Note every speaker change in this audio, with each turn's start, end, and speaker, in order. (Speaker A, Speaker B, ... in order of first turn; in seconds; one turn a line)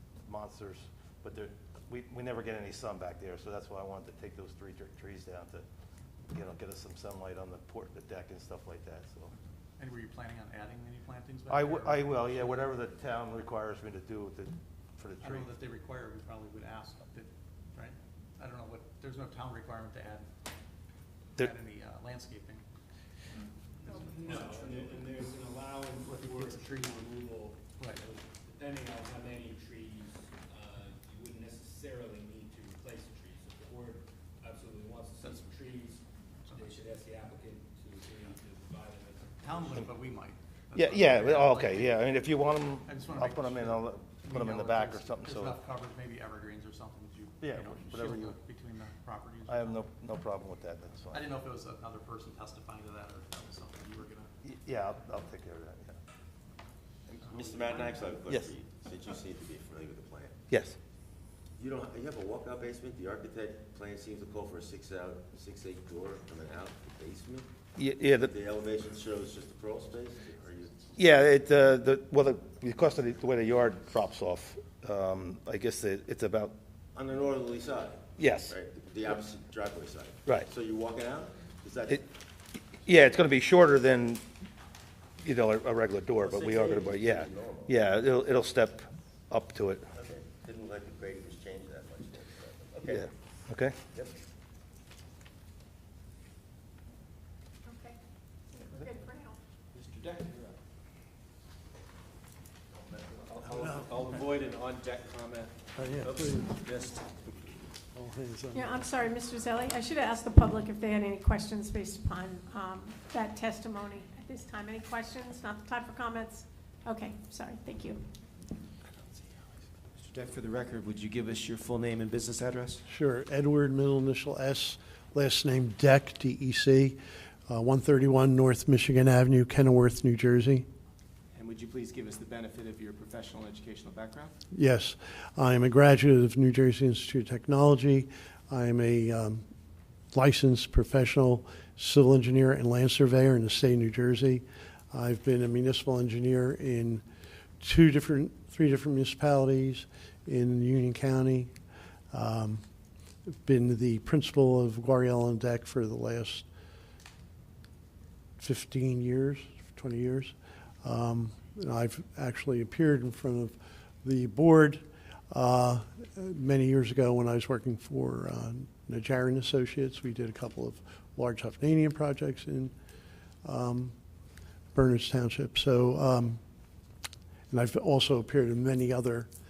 Speaker A: 0.2-5.6
Speaker A: 6.3-9.3
Speaker B: 9.8-12.7
Speaker A: 11.5-15.5
Speaker B: 15.2-20.3
Speaker B: 21.4-22.6
Speaker C: 23.9-39.8
Speaker B: 24.0-24.9
Speaker B: 26.1-26.6
Speaker B: 39.4-42.0
Speaker A: 40.7-45.6
Speaker B: 42.8-49.9
Speaker A: 47.4-48.4
Speaker A: 49.5-51.2
Speaker B: 51.1-54.3
Speaker A: 54.4-56.0
Speaker D: 57.1-60.4
Speaker B: 57.2-58.2
Speaker A: 60.5-60.8
Speaker D: 61.5-67.5
Speaker A: 67.8-68.3
Speaker D: 68.2-70.9
Speaker A: 71.0-76.5
Speaker D: 76.9-82.0
Speaker A: 78.2-78.6
Speaker A: 82.7-84.2
Speaker A: 85.2-89.9
Speaker D: 86.2-87.7
Speaker D: 89.9-93.1
Speaker A: 92.9-93.8
Speaker E: 98.7-99.1
Speaker E: 99.7-100.6
Speaker E: 102.7-107.3
Speaker F: 103.5-104.2
Speaker F: 105.8-106.6
Speaker F: 107.9-109.0
Speaker G: 108.5-118.0
Speaker E: 118.9-119.3
Speaker E: 119.9-122.8
Speaker F: 122.9-127.0
Speaker F: 127.5-130.7
Speaker E: 131.3-134.3
Speaker F: 134.5-139.4
Speaker F: 140.1-147.0
Speaker F: 147.6-151.5
Speaker F: 152.1-152.6
Speaker F: 153.4-156.5
Speaker F: 158.4-172.7
Speaker F: 173.4-173.9
Speaker F: 174.7-176.4
Speaker F: 177.5-179.3